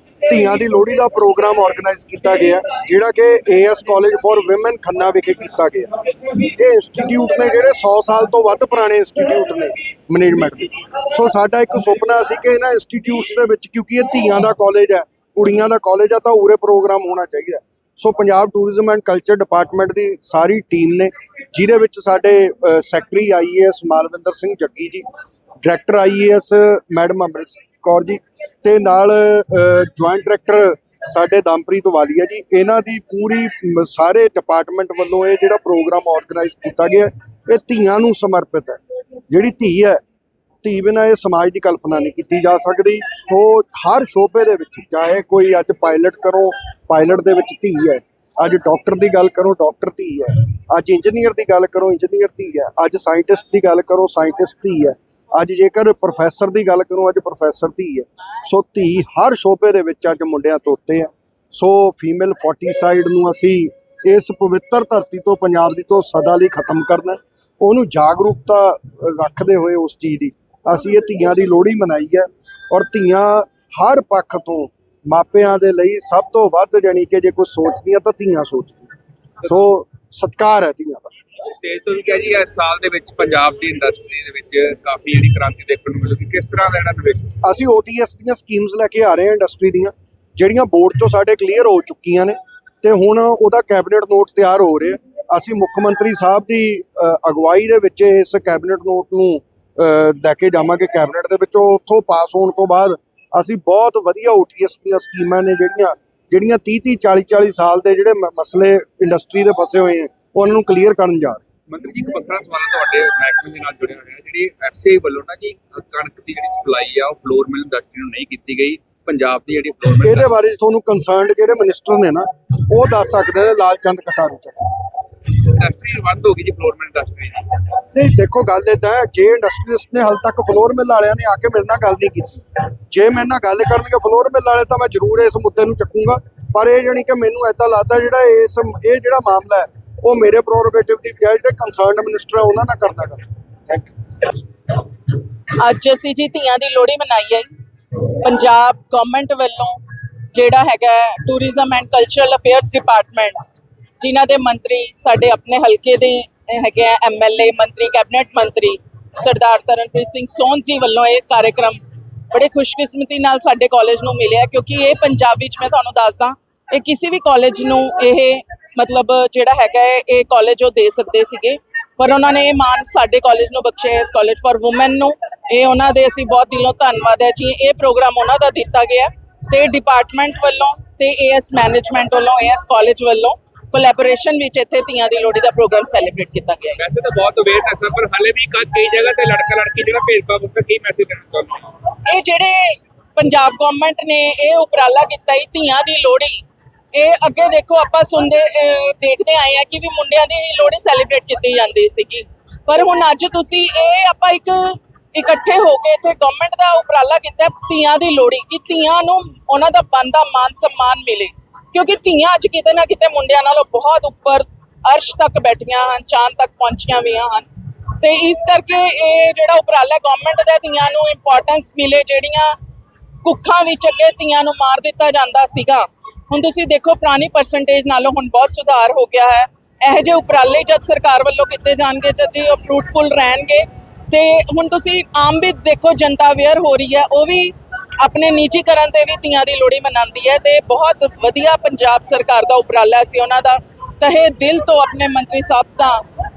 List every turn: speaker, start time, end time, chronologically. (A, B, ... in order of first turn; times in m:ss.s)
0:00.2-0:25.0 A
0:25.6-0:40.0 A
0:40.6-1:18.9 A
1:19.5-1:21.1 A
1:21.4-1:27.3 B
1:27.4-1:51.5 A
1:51.7-2:00.3 B
2:00.1-2:04.9 A
2:05.3-2:07.7 B
2:07.9-2:23.9 A
2:25.6-2:29.8 C
2:30.3-2:33.4 C
2:34.0-2:41.8 C
2:42.3-3:06.8 C
3:06.8-3:11.7 B
3:11.9-3:42.6 C
3:43.2-4:06.0 C